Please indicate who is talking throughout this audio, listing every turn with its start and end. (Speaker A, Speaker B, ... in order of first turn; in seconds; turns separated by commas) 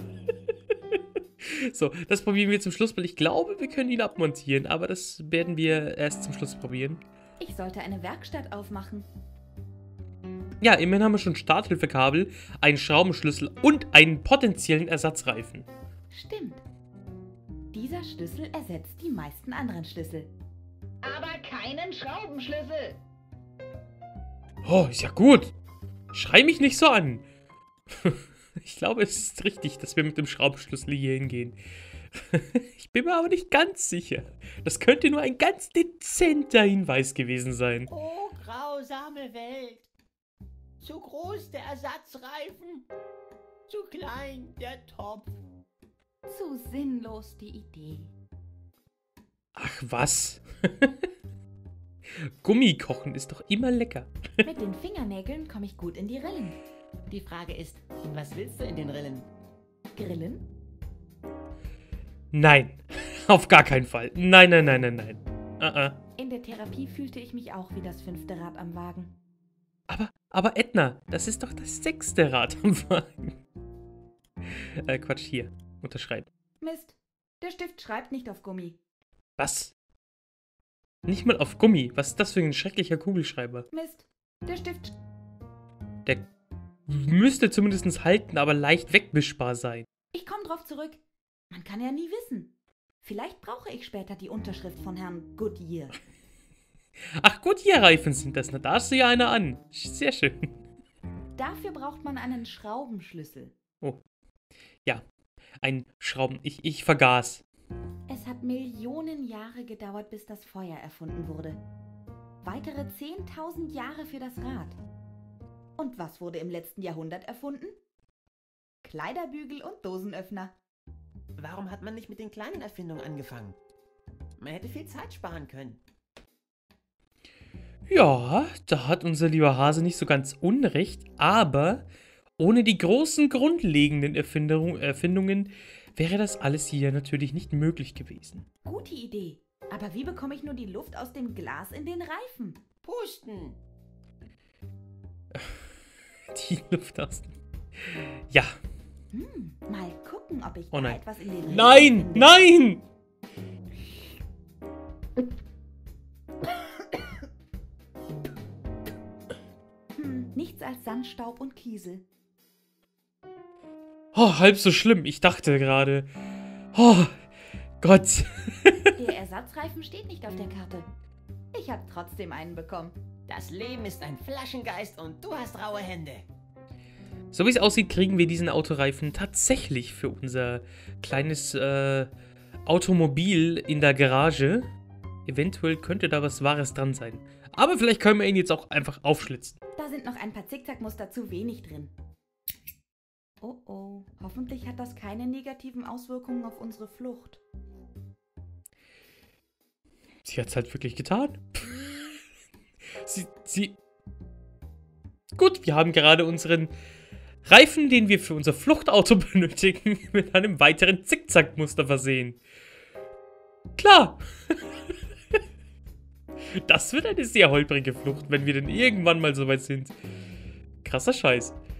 Speaker A: 1.4-7.0, Speaker B: 7.4-9.1, Speaker A: 10.6-15.7, Speaker B: 16.1-16.6, Speaker B: 17.7-20.3, Speaker B: 21.0-23.0, Speaker A: 24.6-25.5, Speaker A: 26.1-27.2, Speaker A: 27.9-31.6, Speaker A: 32.1-37.9, Speaker C: 37.9-39.9, Speaker C: 40.8-42.9, Speaker C: 43.7-45.4, Speaker B: 46.3-48.1, Speaker A: 49.5-50.9, Speaker A: 52.2-54.1, Speaker B: 54.4-56.6, Speaker C: 57.1-59.3, Speaker B: 59.9-60.4, Speaker A: 62.3-66.0, Speaker B: 66.2-69.1, Speaker A: 69.9-73.4, Speaker A: 74.5-76.3, Speaker B: 76.6-78.8, Speaker A: 79.4-79.7, Speaker A: 81.0-83.7, Speaker B: 83.7-85.0, Speaker A: 86.9-89.9, Speaker B: 90.1-96.0, Speaker A: 97.2-100.5, Speaker B: 101.3-103.5, Speaker A: 105.6-107.4, Speaker B: 108.1-111.6, Speaker B: 112.4-114.8, Speaker B: 115.8-117.8, Speaker B: 118.8-120.5, Speaker C: 121.4-123.6, Speaker C: 124.4-125.8, Speaker A: 127.9-131.9, Speaker A: 132.4-138.4, Speaker B: 138.6-142.6, Speaker C: 142.8-143.6, Speaker A: 145.3-145.6, Speaker A: 146.3-147.3, Speaker A: 147.9-148.6, Speaker B: 149.1-152.4, Speaker A: 150.7-152.8, Speaker B: 159.9-162.0, Speaker A: 164.1-166.1, Speaker A: 166.7-167.1, Speaker A: 167.8-169.0, Speaker B: 168.9-170.9, Speaker B: 171.5-172.9, Speaker C: 173.3-176.2, Speaker A: 177.3-182.1, Speaker A: 182.7-184.7, Speaker A: 185.2-189.6, Speaker B: 189.8-191.9, Speaker B: 193.4-197.4, Speaker A: 200.2-202.2, Speaker A: 203.0-203.8, Speaker A: 205.3-206.7, Speaker A: 207.4-212.4, Speaker A: 213.8-214.6, Speaker A: 216.5-219.9, Speaker A: 220.8-221.6